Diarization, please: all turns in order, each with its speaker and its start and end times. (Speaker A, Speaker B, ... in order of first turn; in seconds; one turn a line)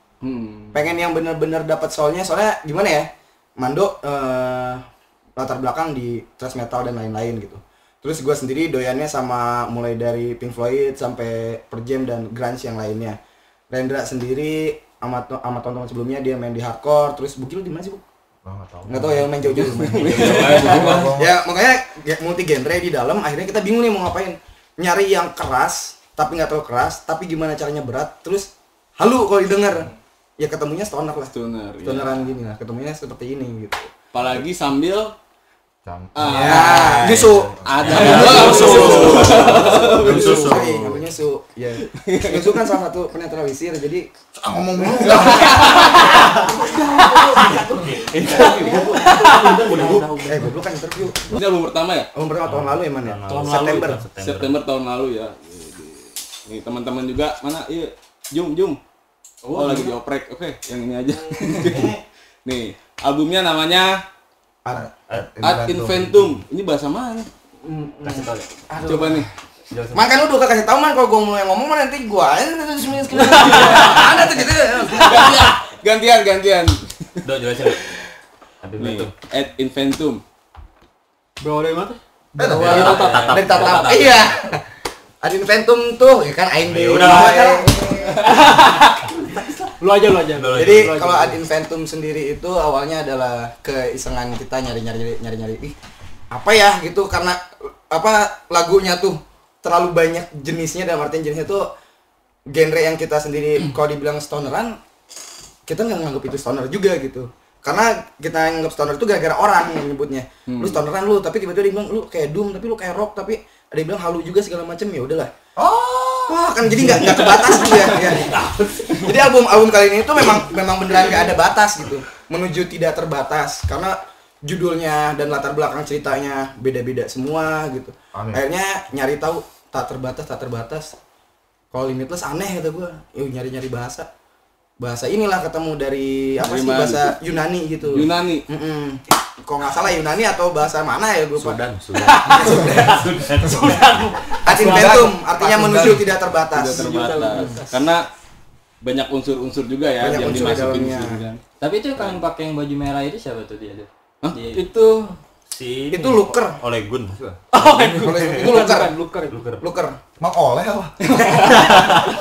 Speaker A: 0.2-0.8
Speaker B: 0.7-4.8
Speaker B: 5.4-13.2
Speaker B: 13.7-18.0
Speaker C: 18.4-21.3
Speaker B: 18.9-31.3
Speaker A: 19.5-21.1
Speaker D: 20.3-20.8
Speaker A: 31.3-32.2
Speaker B: 31.8-33.9
Speaker A: 34.1-35.1
Speaker C: 35.9-38.4
Speaker A: 36.1-37.0
Speaker D: 36.2-41.0
Speaker B: 36.3-44.1
Speaker A: 37.6-40.4
Speaker E: 38.0-40.6
Speaker A: 42.0-42.5
Speaker C: 44.3-45.9
Speaker B: 44.8-48.9
Speaker F: 45.6-46.2
Speaker E: 45.9-50.3
Speaker D: 47.7-50.5
Speaker B: 49.7-51.3
Speaker A: 51.3-52.1
Speaker B: 52.1-54.0
Speaker D: 52.5-54.6
Speaker E: 53.3-54.0
Speaker A: 54.1-58.8
Speaker E: 59.5-59.9
Speaker A: 59.5-64.0
Speaker B: 64.6-64.9
Speaker C: 65.1-66.3
Speaker A: 65.4-67.3
Speaker B: 67.6-69.3
Speaker D: 68.0-68.5
Speaker A: 68.8-69.3
Speaker D: 69.7-70.1
Speaker B: 69.9-75.5
Speaker E: 73.5-74.1
Speaker A: 74.9-77.2
Speaker D: 77.2-77.9
Speaker D: 78.6-79.1
Speaker A: 78.8-80.2
Speaker E: 81.4-84.3
Speaker C: 82.4-83.3
Speaker D: 82.5-84.3
Speaker B: 82.5-84.6
Speaker B: 85.2-88.3
Speaker D: 86.7-87.6
Speaker E: 87.7-89.2
Speaker E: 89.8-91.4
Speaker D: 90.3-91.0
Speaker B: 90.5-95.7
Speaker B: 96.3-101.7
Speaker B: 102.5-104.8
Speaker B: 105.7-115.3
Speaker A: 110.5-110.8
Speaker C: 115.6-116.3
Speaker B: 116.3-130.9
Speaker C: 128.1-128.4
Speaker B: 131.7-134.1
Speaker B: 134.8-141.6
Speaker A: 136.4-137.1
Speaker A: 137.8-138.4
Speaker D: 141.3-144.0
Speaker E: 141.9-145.2
Speaker B: 142.2-143.3
Speaker B: 144.4-147.6
Speaker C: 144.5-146.0
Speaker A: 146.5-148.1
Speaker E: 146.7-147.9
Speaker A: 148.8-151.4
Speaker B: 150.0-151.2
Speaker F: 151.6-154.7
Speaker E: 154.5-155.2
Speaker D: 155.5-158.7
Speaker B: 155.9-156.6
Speaker E: 157.5-159.4
Speaker B: 158.0-159.0
Speaker D: 159.3-159.6
Speaker B: 159.6-160.0
Speaker C: 160.2-161.3
Speaker B: 161.3-162.0
Speaker D: 161.5-162.0